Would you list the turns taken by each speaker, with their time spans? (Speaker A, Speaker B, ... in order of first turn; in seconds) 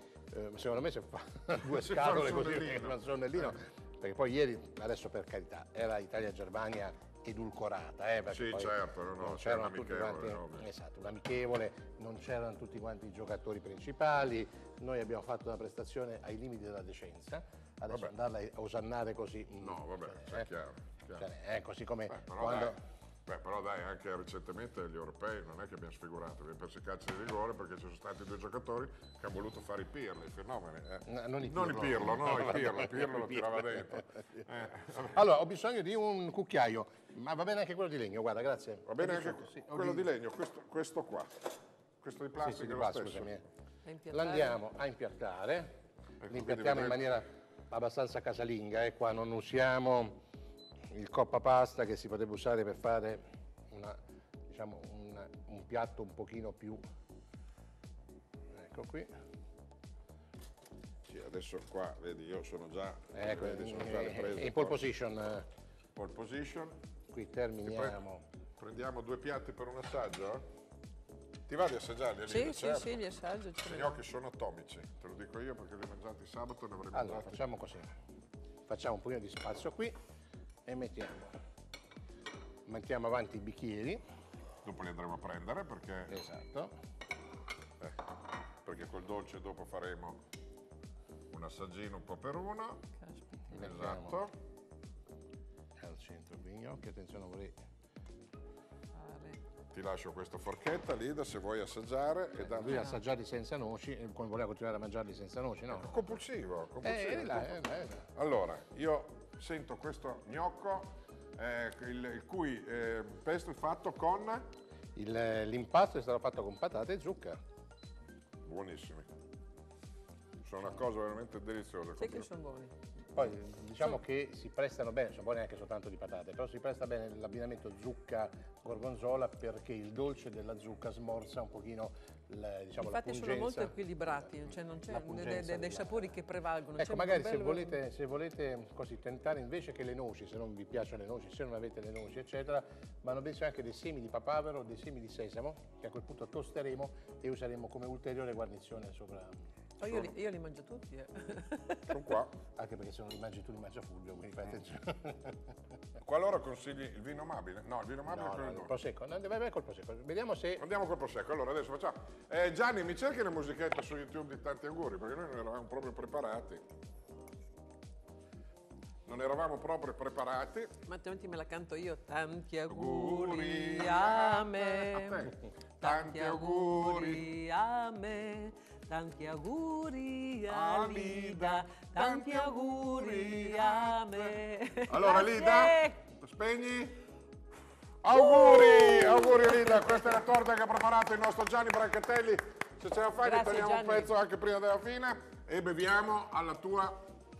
Speaker A: 0.3-20.5, 21.2-22.8, 31.1-33.8, 35.0-40.1, 42.4-43.4, 44.1-45.7, 46.3-50.2, 50.9-56.8, 58.5-59.1, 63.1-65.5, 67.1-68.2, 76.9-77.9, 78.7-80.0, 80.7-81.4, 82.7-84.0, 86.1-86.7, 93.5-94.2, 95.8-97.6, 102.4-106.1, 106.8-108.1, 115.0-117.4, 123.1-133.7, 134.9-136.1, 136.8-149.3, 152.6-155.5, 158.1-160.6
Speaker B: 1.6-3.5, 8.3-10.7, 19.6-21.3, 22.1-35.1, 38.9-41.3, 42.0-43.3, 46.2-47.0, 61.1-64.8, 66.0-66.7, 67.6-68.0, 68.6-70.4, 71.5-73.0, 73.6-77.4, 84.6-86.2, 88.6-90.2, 91.3-92.8, 93.5-94.3, 99.7-102.9, 105.7-107.5, 108.1-114.5, 118.4-119.1, 120.4-122.3, 151.9-152.3, 156.0-158.7, 160.6-166.6, 169.1-170.7, 172.7-177.3, 180.5-184.3, 184.9-186.9, 188.0-197.0
Speaker C: 43.8-44.6, 72.3-73.9, 93.0-93.7, 98.9-99.4, 102.7-103.0, 122.0-122.7, 132.8-137.8, 149.8-152.0, 170.9-175.2, 175.8-186.0, 188.1-190.1, 193.2-194.1